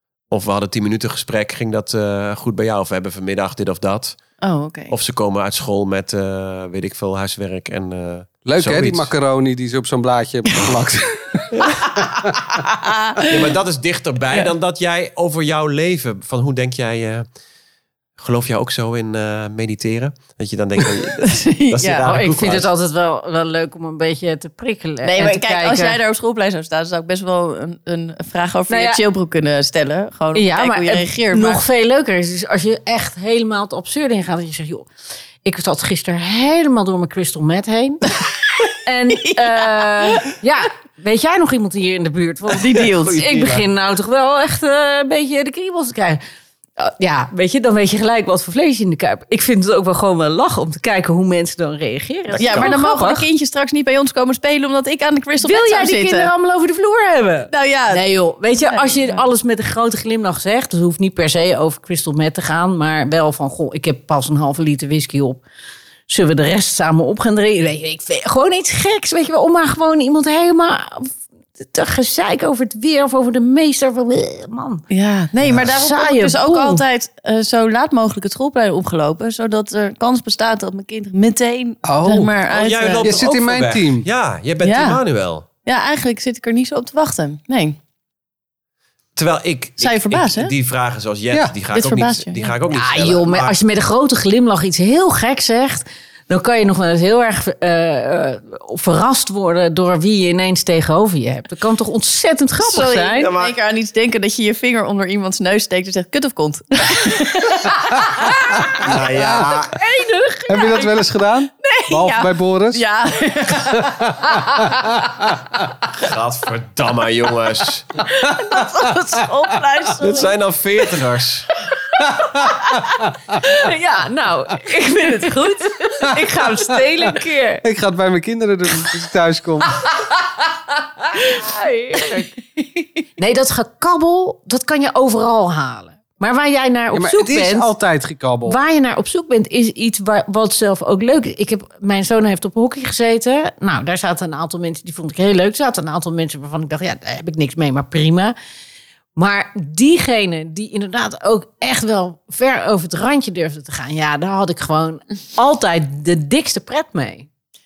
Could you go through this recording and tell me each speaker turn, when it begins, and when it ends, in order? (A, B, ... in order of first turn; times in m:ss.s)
0:00.3-0:04.2 A
0:04.4-0:04.9 B
0:04.9-0:09.1 A
0:08.5-0:11.7 C
0:11.6-0:11.9 A
0:12.6-0:13.5 B
0:13.3-0:17.3 A
0:18.2-0:22.7 A
0:21.2-0:22.1 B
0:22.1-0:26.0 D
0:25.0-0:31.6 B
0:28.7-0:29.0 D
0:30.3-0:34.9 D
0:35.4-0:38.1 D
0:38.8-0:46.2 D
0:39.4-0:39.7 B
0:42.6-0:43.2 B
0:42.7-0:43.6 A
0:46.8-0:53.3 D
0:52.3-0:52.8 A
0:52.4-0:56.3 B
0:55.4-1:05.4 D
0:57.5-0:58.0 B
0:58.6-0:59.2 B
1:06.1-1:14.8 D
1:14.9-1:23.2 B
1:15.6-1:16.8 D
1:21.8-1:22.3 C
1:22.5-1:25.5 A
1:23.0-1:24.1 C
1:24.6-1:25.0 B
1:25.7-1:27.8 B
1:29.2-1:33.6 A
1:29.8-1:30.5 B
1:31.7-1:32.5 B
1:32.7-1:43.3 D
1:42.6-1:49.0 B
1:43.2-1:43.5 A
1:48.8-1:49.6 C
1:48.8-1:49.7 A
1:49.7-1:51.0 D
1:50.5-1:52.8 C
1:51.6-1:54.7 B
1:53.7-1:55.2 C
1:54.3-1:54.7 D
1:55.9-1:58.0 A
1:58.0-2:00.3 B
2:00.0-2:01.5 A
2:02.1-2:03.3 C
2:03.3-2:07.6 D
2:07.6-2:09.8 C
2:09.8-2:10.5 D
2:11.0-2:12.3 D
2:13.2-2:17.7 D
2:16.9-2:18.6 C
2:18.5-2:28.3 D
2:29.2-2:37.3 D